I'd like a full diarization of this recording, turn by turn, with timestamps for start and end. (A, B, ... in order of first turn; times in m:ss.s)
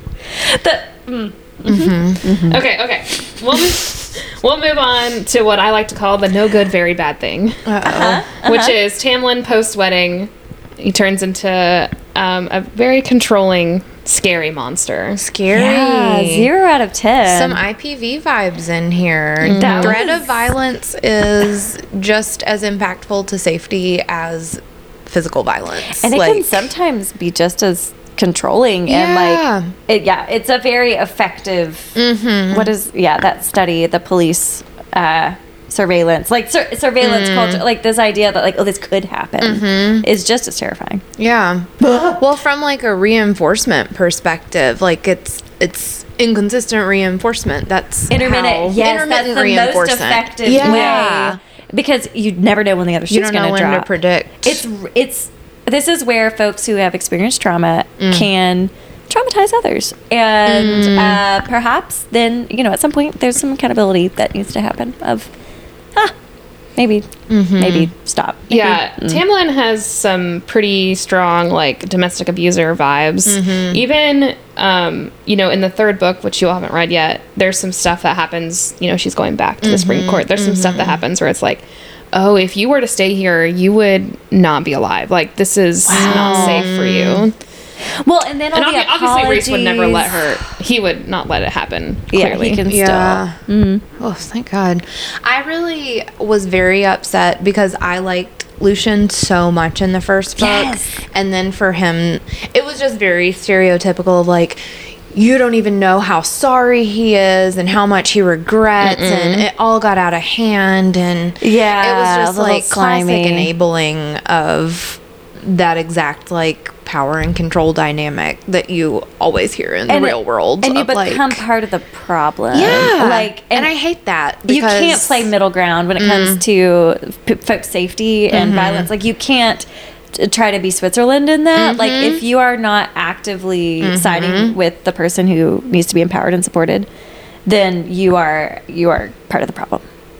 0:00.3-0:02.6 A
0:01.7-0:02.3 B
0:02.5-0:07.6 C
0:07.6-0:08.2 B
0:07.8-0:08.8 A
0:08.4-0:15.2 C
0:15.2-0:16.5 B
0:15.5-0:17.6 A
0:17.2-0:26.7 B
0:19.4-0:20.1 C
0:19.4-0:20.2 A
0:25.9-0:32.0 A
0:28.9-0:29.7 B
0:32.0-0:32.7 B
0:32.5-0:41.0 A
0:37.0-0:37.6 B
0:39.4-0:40.1 B
0:41.2-0:51.4 B
0:41.8-0:42.2 A
0:48.1-0:53.9 A
0:50.6-0:51.1 C
0:53.1-0:54.6 B
0:54.4-1:05.3 A
0:58.0-0:58.3 B
1:00.5-1:01.2 B
1:06.8-1:09.2 A
1:07.3-1:07.9 B
1:08.5-1:27.3 C
1:13.3-1:13.8 B
1:19.6-1:21.0 B
1:25.9-1:26.7 A
1:25.9-1:27.2 B
1:28.0-1:30.2 A
1:28.6-1:32.6 C
1:32.1-1:33.8 A
1:32.7-1:33.4 B
1:34.0-2:01.4 B
1:40.4-1:40.9 A
1:48.8-1:49.5 C
1:51.4-1:53.5 A
1:59.9-2:03.7 A
2:02.5-2:05.3 B
2:04.5-2:16.9 A
2:06.0-2:06.4 B
2:08.3-2:08.9 B
2:11.6-2:12.2 B
2:13.8-2:14.6 B
2:17.5-2:19.8 A